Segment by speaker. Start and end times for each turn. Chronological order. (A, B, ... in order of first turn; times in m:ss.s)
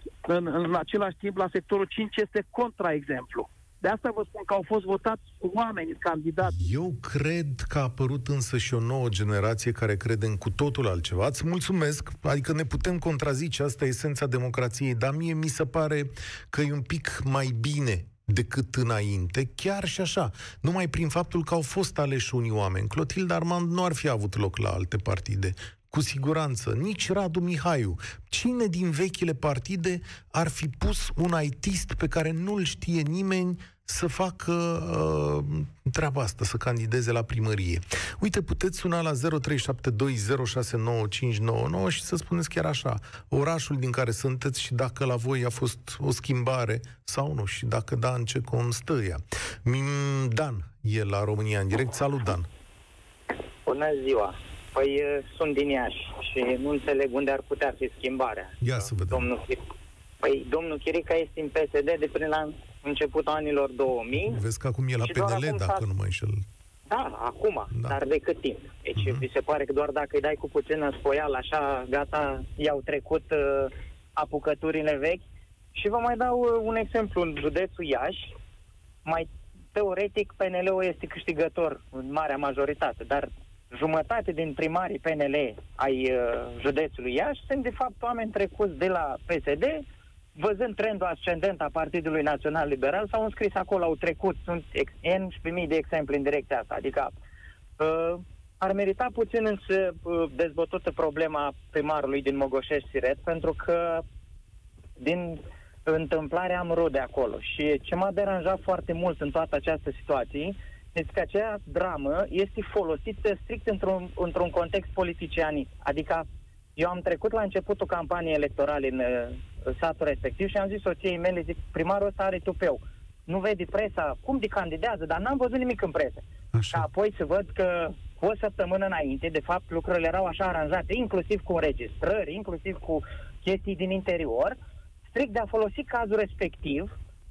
0:00.2-0:06.6 A
0:06.4-0:52.5 B
0:53.7-0:59.6 C
0:58.6-0:59.3 B
1:00.2-1:04.4 C
1:04.2-1:06.4 B
1:05.0-1:05.9 C
1:06.9-1:15.2 C
1:07.7-1:08.0 B
1:09.0-1:09.2 B
1:15.8-1:18.3 C
1:19.1-1:29.8 C
1:30.4-1:37.1 C
1:37.8-1:44.0 C
1:45.0-2:14.6 C
2:06.5-2:06.9 B
2:15.1-2:16.9 C